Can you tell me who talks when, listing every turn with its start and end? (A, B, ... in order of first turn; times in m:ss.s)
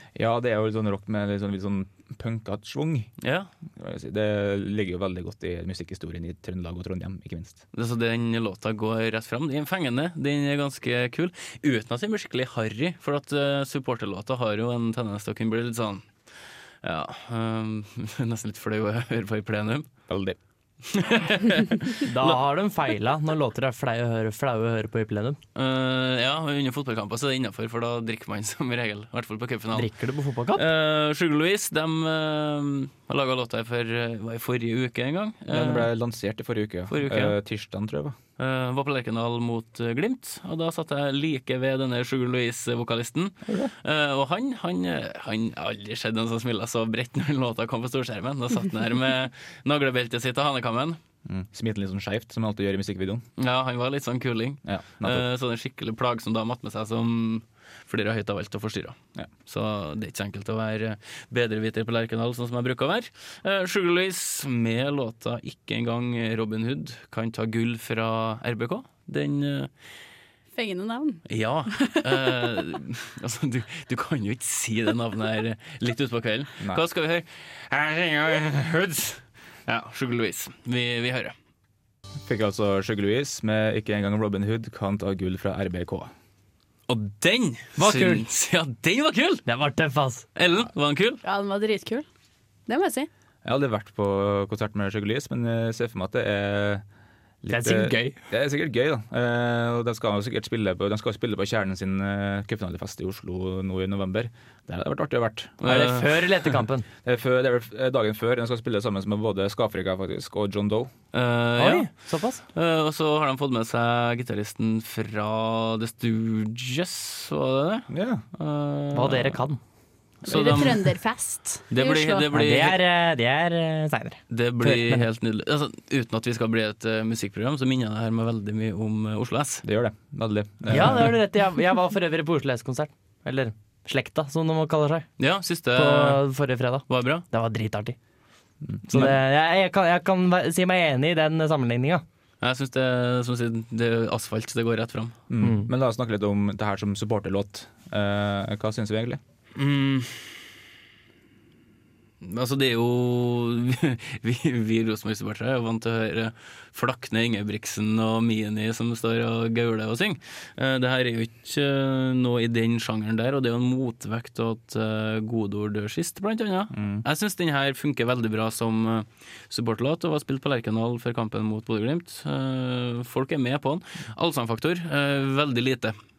0:00.2-0:03.1 A
0:03.2-0:03.5 B
0:03.8-0:07.6 A
0:07.7-0:16.0 B
0:16.8-0:19.8 B
0:20.1-0:20.4 A
0:20.8-0:22.4 B
0:22.0-0:25.4 C
0:25.5-0:29.9 B
0:29.7-0:30.6 C
0:30.5-0:35.9 B
0:35.5-0:38.2 A
0:36.9-0:37.4 B
0:38.4-0:51.0 B
0:43.5-0:43.7 A
0:51.2-0:53.2 A
0:53.4-1:09.7 B
0:54.6-0:55.2 A
1:10.5-1:11.2 D
1:11.3-1:21.3 B
1:11.8-1:12.4 D
1:22.2-1:26.1 A
1:26.9-1:29.4 B
1:27.8-1:28.2 C
1:29.4-1:30.2 C
1:30.4-1:31.2 B
1:31.2-1:32.0 D
1:32.7-1:33.1 D
1:33.4-1:36.8 A
1:37.4-1:45.6 A
1:37.5-1:38.2 C
1:45.6-1:46.6 B
1:45.6-1:46.8 C
1:47.0-1:50.9 A
1:51.1-1:51.9 B
1:51.6-1:52.4 C
1:52.5-1:59.4 B
1:57.9-1:58.2 A
1:58.9-1:59.6 C
2:00.2-2:02.3 D
2:00.2-2:01.0 B
2:01.7-2:02.8 B
2:02.3-2:05.0 C
2:04.3-2:09.6 B
2:09.6-2:11.2 A
2:10.7-2:15.1 C
2:15.2-2:16.2 B
2:15.7-2:18.0 C
2:16.9-2:17.2 B
2:18.6-2:19.2 A
2:18.9-2:22.0 C
2:22.4-2:25.1 B
2:25.3-2:29.2 A
2:25.4-2:25.7 C
2:29.6-2:30.4 B
2:32.2-2:55.9 B
2:46.7-2:47.0 A